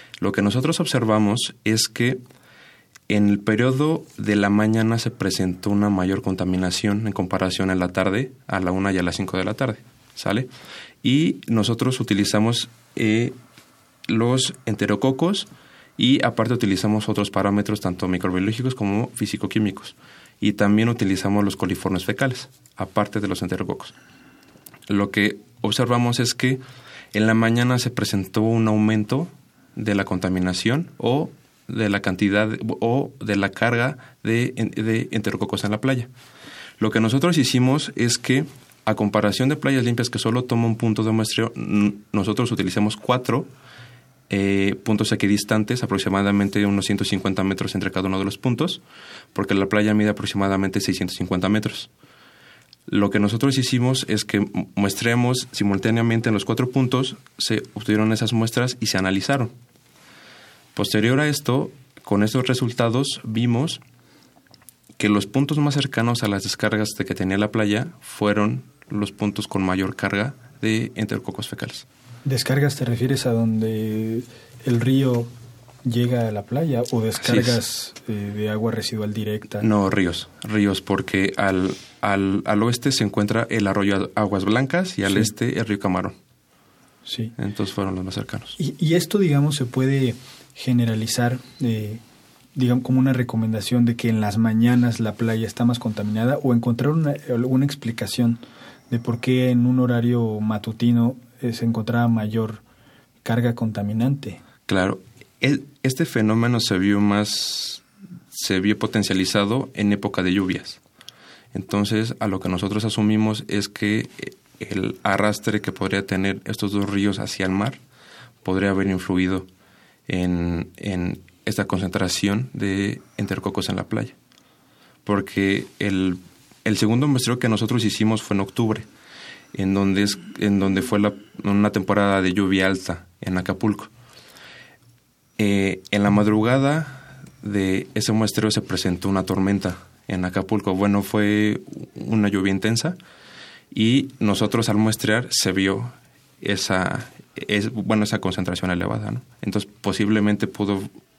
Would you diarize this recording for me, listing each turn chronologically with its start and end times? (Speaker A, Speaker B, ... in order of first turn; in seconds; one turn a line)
Speaker A: 0.2-2.2
Speaker A: 3.1-10.5
Speaker A: 11.0-13.4
Speaker A: 14.1-23.9
Speaker A: 24.9-26.6
Speaker A: 27.1-36.1
Speaker A: 36.8-43.5
Speaker A: 44.3-48.8
Speaker A: 49.3-51.9
Speaker A: 52.9-59.5
Speaker A: 60.8-63.8
Speaker A: 65.0-71.9
Speaker B: 72.2-75.3
Speaker B: 75.8-79.7
Speaker A: 77.2-77.6
Speaker A: 79.6-86.2
Speaker B: 87.1-87.3
Speaker A: 87.4-88.6
Speaker B: 88.6-92.0
Speaker B: 92.5-102.6
Speaker B: 103.2-104.4
Speaker A: 104.7-110.8
Speaker A: 111.5-117.8
Speaker A: 118.4-119.5
Speaker A: 120.1-124.2
Speaker A: 125.0-128.9
Speaker A: 129.5-133.9
Speaker A: 135.4-143.0
Speaker A: 143.7-150.9